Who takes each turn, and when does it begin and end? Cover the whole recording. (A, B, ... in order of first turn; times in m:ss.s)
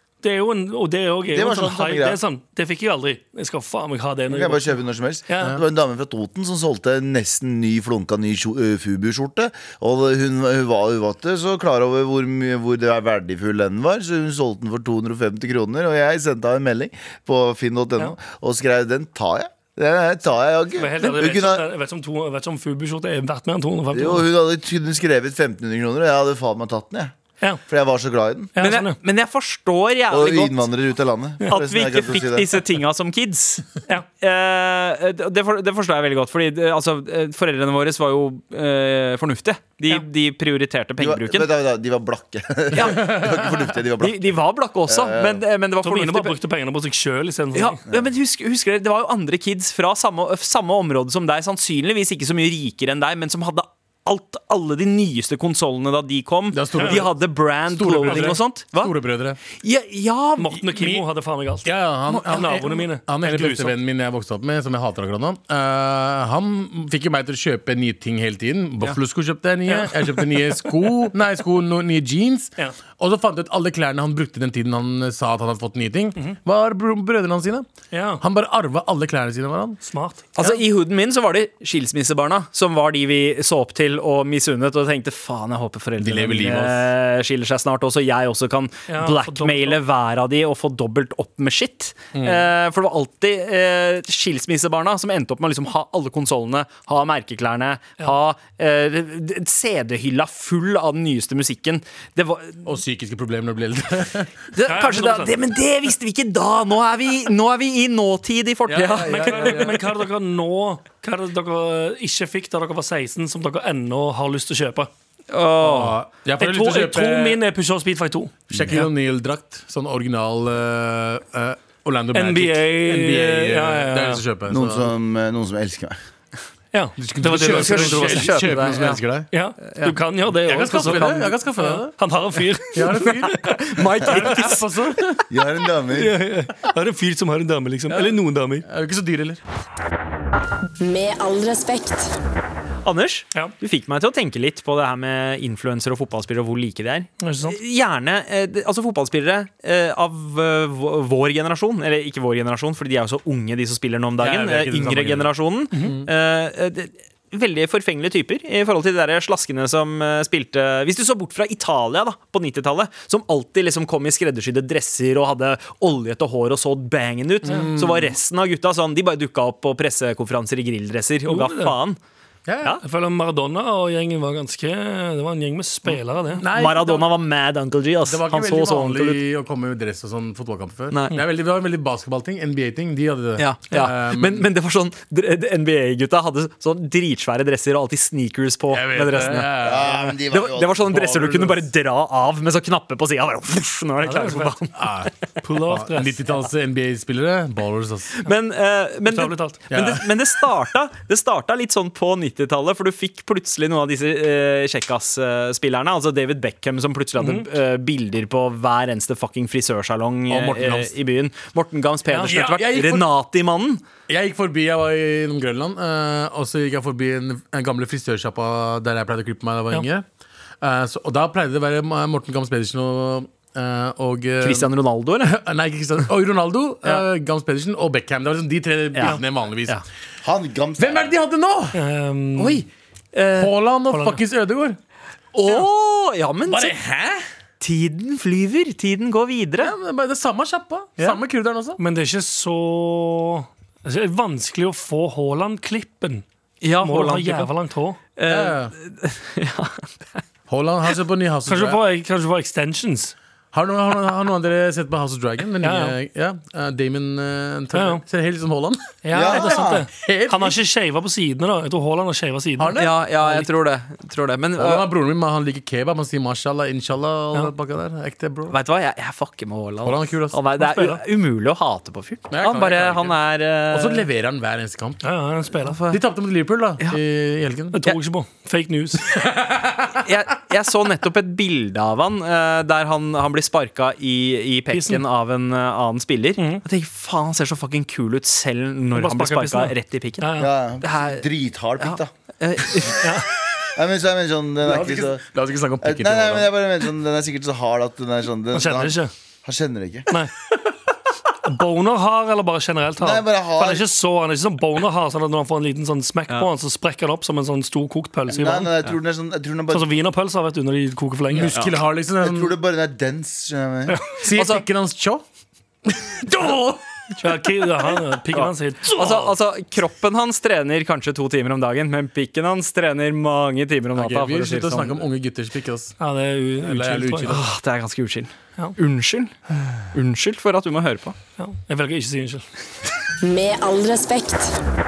0:00.2-0:05.6 A
0:01.3-0:02.2 B
0:04.3-0:21.6 B
0:20.8-0:24.3 A
0:23.9-0:27.1 B
0:27.7-0:28.5 B
0:28.5-0:29.0 A
0:28.6-0:30.6 C
0:30.1-0:32.5 B
0:31.5-0:41.5 C
0:41.0-0:45.4 B
0:42.7-0:43.3 C
0:44.0-0:46.4 C
0:45.8-0:47.8 A
0:47.5-0:58.9 C
0:56.5-0:59.4 D
0:56.8-0:57.0 A
0:58.1-0:58.4 A
0:59.6-1:00.5 C
1:00.4-1:03.8 A
1:00.6-1:01.1 D
1:01.6-1:17.7 D
1:09.7-1:10.1 A
1:17.9-1:18.2 A
1:18.2-1:19.8 D
1:19.8-1:20.6 A
1:20.4-1:42.8 C
1:26.0-1:26.9 D
1:28.9-1:29.8 A
1:32.1-1:32.5 D
1:42.6-1:44.3 D
1:44.5-1:49.6 C
1:44.6-1:45.3 A
1:48.7-1:49.8 D
1:49.1-1:54.9 A
1:55.3-1:56.0 C
1:55.6-1:57.4 D
1:56.4-1:58.8 A
1:58.5-2:04.9 D
2:02.1-2:04.2 A
2:04.5-2:06.0 B
2:06.7-2:08.6 A
2:07.0-2:09.3 D
2:07.4-2:09.0 C
2:09.3-2:14.4 A
2:09.6-2:10.0 C
2:10.4-2:12.0 D
2:12.7-2:15.2 D
2:13.3-2:14.6 C
2:15.3-2:16.1 B
2:15.9-2:18.6 A
2:18.6-2:19.4 D
2:20.8-2:22.1 E
2:22.8-2:52.0 C
2:27.2-2:27.6 A
2:34.2-2:36.1 D
2:47.4-2:48.2 D
2:51.3-2:51.7 A
2:52.5-2:52.8 D
2:52.8-2:56.4 A
2:56.4-2:57.2 D
2:56.5-2:59.2 C
2:58.0-3:04.5 D
3:00.9-3:01.2 C
3:03.4-3:09.6 C
3:08.7-3:10.2 D
3:09.6-3:10.8 B
3:10.3-3:15.1 C
3:10.9-3:11.6 D
3:14.0-3:14.5 A
3:14.8-3:15.1 D
3:15.4-3:16.2 A
3:15.7-3:18.1 D
3:18.2-3:33.8 C
3:19.1-3:19.6 A
3:19.7-3:20.0 D
3:27.2-3:27.4 A
3:30.3-3:30.9 D
3:32.1-3:32.4 A
3:32.2-3:33.1 D
3:34.1-3:40.0 D
3:40.6-3:44.7 D
3:44.4-3:45.4 C
3:45.2-3:49.8 D
3:48.9-3:49.8 C
3:50.2-3:51.1 B
3:50.8-3:51.8 D
3:51.7-3:52.6 A
3:52.4-3:53.5 C
3:53.4-3:54.8 D
3:53.9-3:54.2 A
3:55.3-3:56.8 C
3:56.5-3:57.2 D
3:57.6-3:59.7 C
3:59.6-4:01.8 D
4:01.8-4:06.2 A
4:06.6-4:07.5 C
4:06.8-4:08.0 A
4:08.2-4:10.0 C
4:08.2-4:08.7 D
4:10.5-4:11.8 D
4:11.5-4:13.1 A
4:13.5-4:20.6 D
4:15.6-4:15.9 A
4:17.7-4:18.0 A
4:19.0-4:22.8 A
4:19.1-4:19.9 B
4:22.6-4:23.4 D
4:22.8-4:24.9 C
4:24.6-4:28.5 D
4:28.5-4:34.1 C
4:29.8-4:30.4 D
4:30.6-4:31.0 A
4:32.3-4:35.0 D
4:35.0-4:35.8 A
4:35.6-4:36.0 C
4:35.9-4:37.8 D
4:37.7-4:39.1 A
4:39.1-4:40.0 D
4:40.0-4:51.2 C
4:44.7-4:45.0 A
4:46.4-4:46.6 A
4:48.9-4:50.5 A
4:50.4-4:52.1 B
4:51.8-4:53.1 C
4:53.0-4:53.3 A
4:53.7-4:55.2 B
4:54.6-4:56.5 D
4:55.8-5:00.1 B
4:58.5-4:59.1 A
5:01.4-5:08.7 A
5:03.0-5:03.8 B
5:08.3-5:09.9 B
5:09.7-5:11.5 A
5:11.3-5:12.6 D
5:11.5-5:11.8 C
5:12.2-5:14.0 B
5:14.2-5:15.2 D
5:14.3-5:14.6 C
5:16.0-5:16.8 D
5:17.2-5:19.3 A
5:18.3-5:25.0 C
5:23.9-5:26.0 D
5:26.0-5:27.3 A
5:26.6-5:27.5 D
5:27.3-5:29.3 C
5:29.9-5:31.2 C
5:31.4-5:32.4 A
5:33.2-5:34.5 E